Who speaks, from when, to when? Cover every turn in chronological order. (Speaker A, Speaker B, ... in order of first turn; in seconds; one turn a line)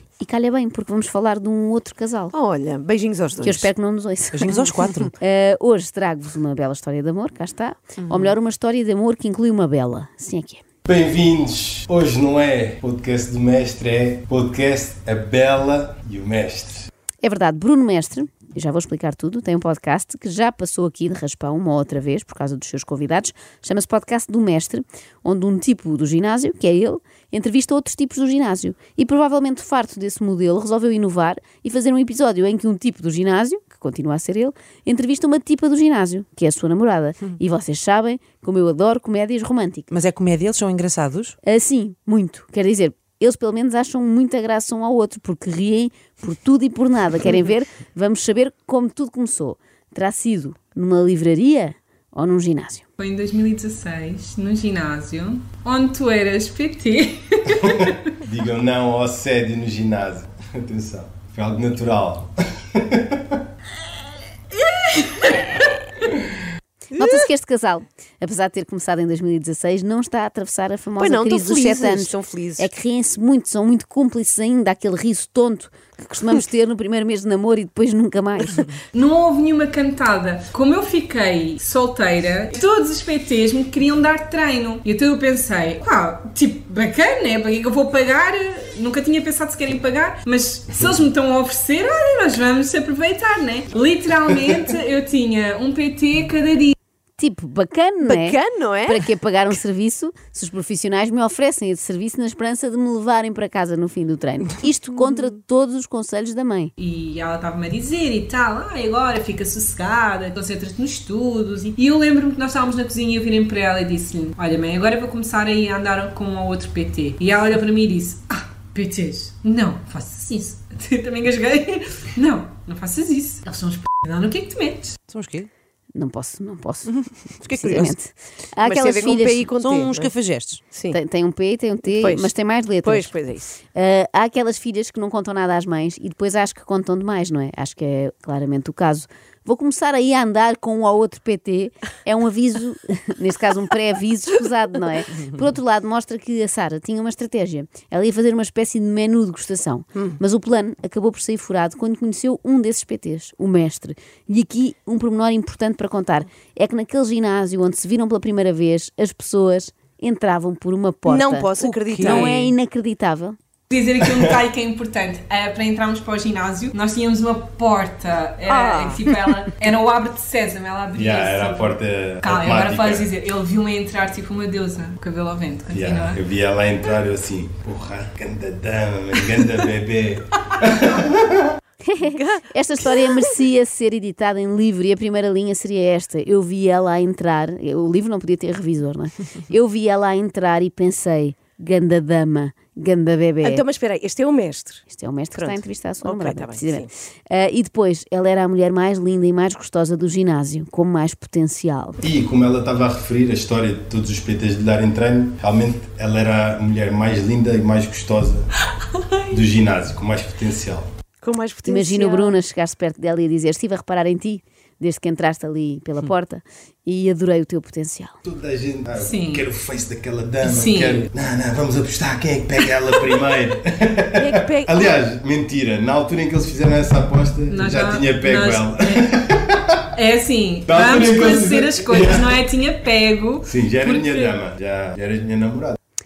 Speaker A: 0.2-2.3
Speaker B: 2.3-3.7
Speaker A: 3.4-4.7
Speaker C: 4.3-5.1
Speaker A: 5.2-10.6
Speaker B: 8.0-8.3
Speaker D: 10.8-16.9
Speaker A: 17.2-39.9
Speaker C: 39.9-41.4
Speaker A: 41.4-52.9
Speaker E: 53.0-58.0
Speaker D: 57.6-63.4
Speaker E: 64.8-65.7
Speaker A: 66.9-78.7
Speaker B: 67.0-67.2
Speaker B: 71.0-72.7
Speaker E: 78.9-96.8
Speaker A: 97.2-106.7
Speaker B: 98.0-99.0
Speaker E: 106.8-125.0
Speaker C: 125.1-125.5
Speaker A: 126.0-129.5
Speaker C: 127.4-127.8
Speaker B: 127.6-127.9
Speaker B: 128.6-130.1
Speaker C: 129.6-130.6
Speaker B: 130.7-131.0
Speaker A: 130.9-163.4
Speaker B: 131.9-132.3
Speaker B: 132.8-133.5
Speaker B: 161.1-162.4
Speaker C: 161.9-162.5
Speaker E: 163.7-176.2
Speaker D: 164.1-164.4
Speaker B: 168.5-169.3
Speaker D: 170.9-173.1
Speaker D: 175.7-181.5
Speaker A: 181.8-193.6
Speaker B: 182.1-183.3
Speaker B: 193.4-194.8
Speaker A: 194.9-202.0
Speaker B: 195.3-196.9
Speaker D: 202.0-208.5
Speaker E: 209.1-209.4
Speaker D: 209.3-210.9
Speaker B: 211.2-212.4
Speaker A: 211.7-218.2
Speaker D: 218.2-229.8
Speaker E: 219.0-219.5
Speaker E: 220.4-221.1
Speaker B: 224.2-225.0
Speaker E: 227.5-229.1
Speaker E: 229.9-234.3
Speaker D: 230.7-232.4
Speaker D: 233.5-235.8